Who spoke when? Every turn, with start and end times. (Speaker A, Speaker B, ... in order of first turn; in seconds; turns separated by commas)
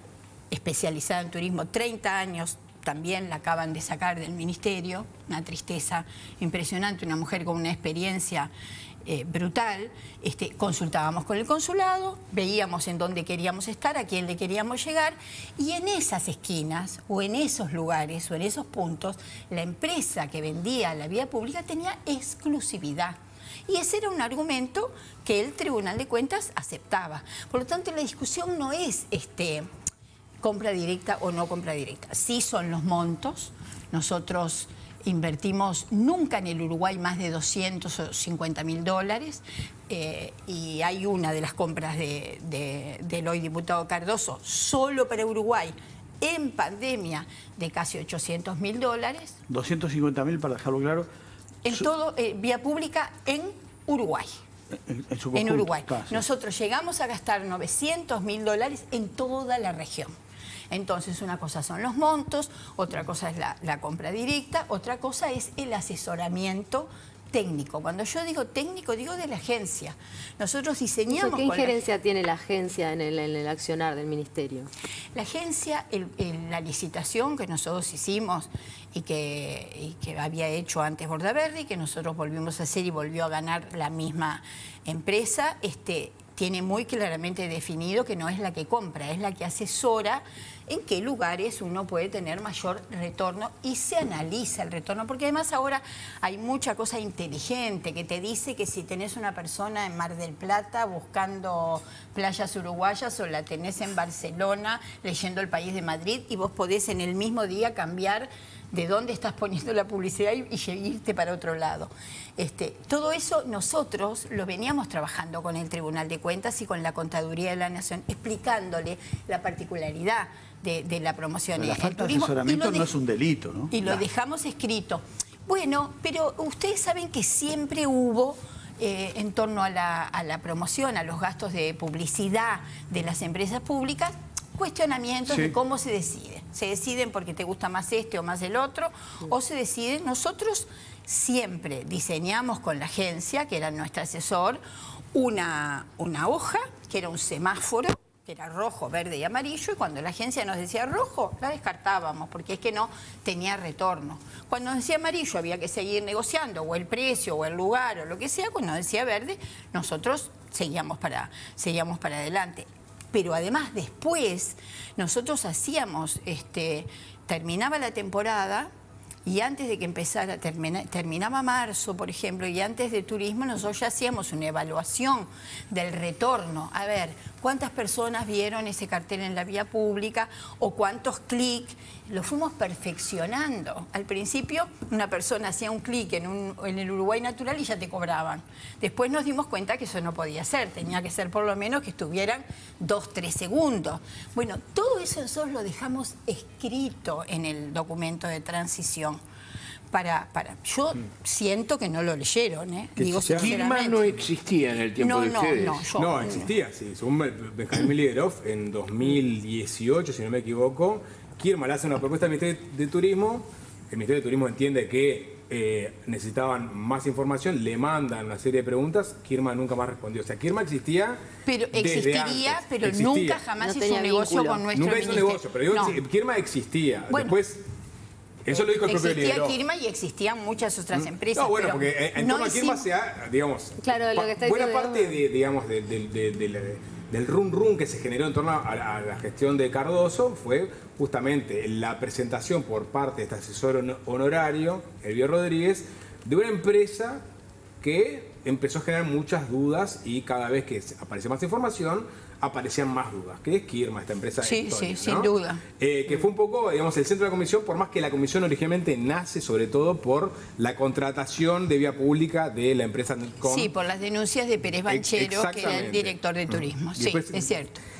Speaker A: 0.5-8.5, Speaker A: 9.0-29.7, Speaker A: 30.4-49.4, Speaker B: 49.5-51.1, Speaker A: 51.6-54.4, Speaker B: 54.7-56.2, Speaker A: 55.3-60.1, Speaker A: 60.7-71.8, Speaker C: 71.1-74.7, Speaker A: 75.1-122.9, Speaker B: 121.5-124.0, Speaker A: 123.7-144.6, Speaker B: 135.3-135.6, Speaker A: 145.1-168.7, Speaker A: 169.2-199.2, Speaker A: 199.9-204.1, Speaker D: 203.1-203.4, Speaker E: 203.2-205.8, Speaker A: 205.0-206.5, Speaker D: 205.9-221.2, Speaker A: 221.4-226.0, Speaker D: 221.7-223.4, Speaker C: 223.6-224.6, Speaker D: 224.7-227.6, Speaker A: 227.1-227.3, Speaker D: 228.4-229.6, Speaker A: 228.5-232.9, Speaker D: 230.9-247.2, Speaker C: 233.8-235.2, Speaker D: 247.8-263.7, Speaker A: 254.4-255.6, Speaker A: 263.4-267.8, Speaker D: 264.9-267.5